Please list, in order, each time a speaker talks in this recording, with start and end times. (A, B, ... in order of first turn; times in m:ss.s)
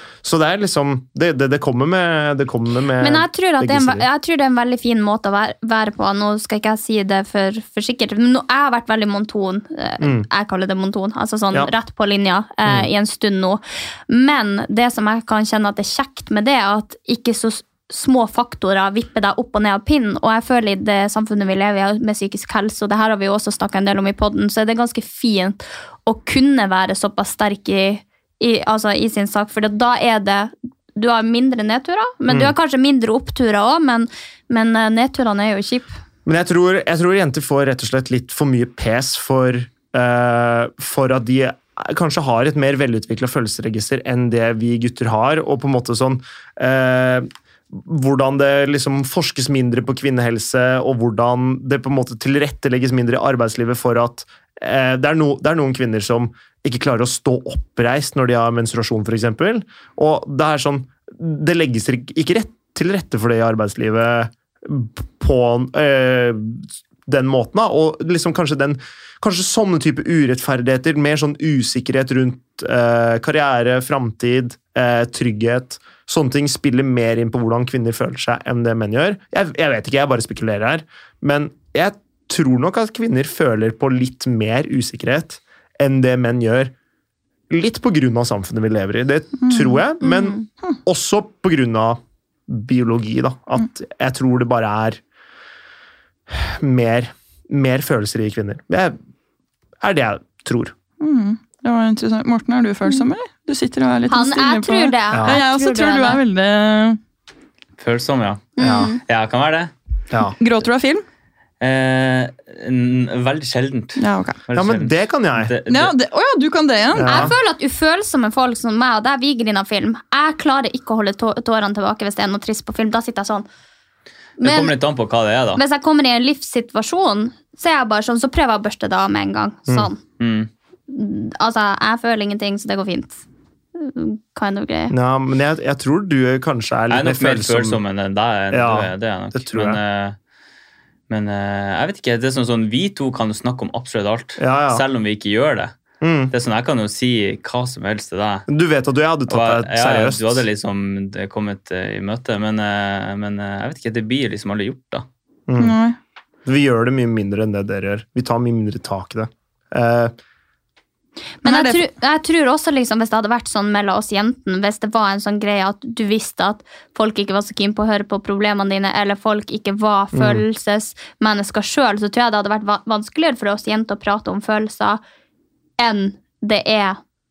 0:00.2-0:04.0 A
0:03.0-0:35.9 B
0:10.0-0:10.3 A
0:32.3-0:32.5 A
0:36.2-1:26.7 A
1:27.5-1:35.0 A
1:29.4-1:29.8 C
1:30.0-1:30.4 B
1:36.3-1:39.0 A
1:39.8-1:40.7 A
1:41.0-1:47.0 C
1:44.1-1:46.2 B
1:45.1-1:45.4 A
1:47.8-1:48.5 D
1:48.6-1:49.0 B
1:48.6-1:49.0 A
1:49.0-1:49.7 D
1:50.4-1:51.0 C
1:51.6-1:55.9 D
1:54.0-1:54.4 C
1:54.5-1:55.5 A
1:55.7-1:57.1 C
1:57.0-1:57.3 A
1:57.0-2:03.4 B
2:04.4-2:04.8 B
2:04.4-2:05.6 D
2:05.6-2:10.0 B
2:10.2-2:10.5 D
2:10.9-2:13.2 B
2:13.8-2:14.9 B
2:14.9-2:17.8 A
2:16.9-2:20.2 D
2:18.5-2:19.8 A
2:21.1-2:25.7 D
2:24.4-2:24.8 A
2:26.0-2:26.3 A
2:26.3-2:28.4 D
2:28.5-2:30.4 A
2:29.3-2:35.0 D
2:35.5-2:35.7 A
2:35.6-2:36.0 C
2:36.4-2:40.1 A
2:41.4-2:55.0 B
2:41.4-2:41.8 C
2:50.1-2:50.4 A
2:55.8-2:57.0 B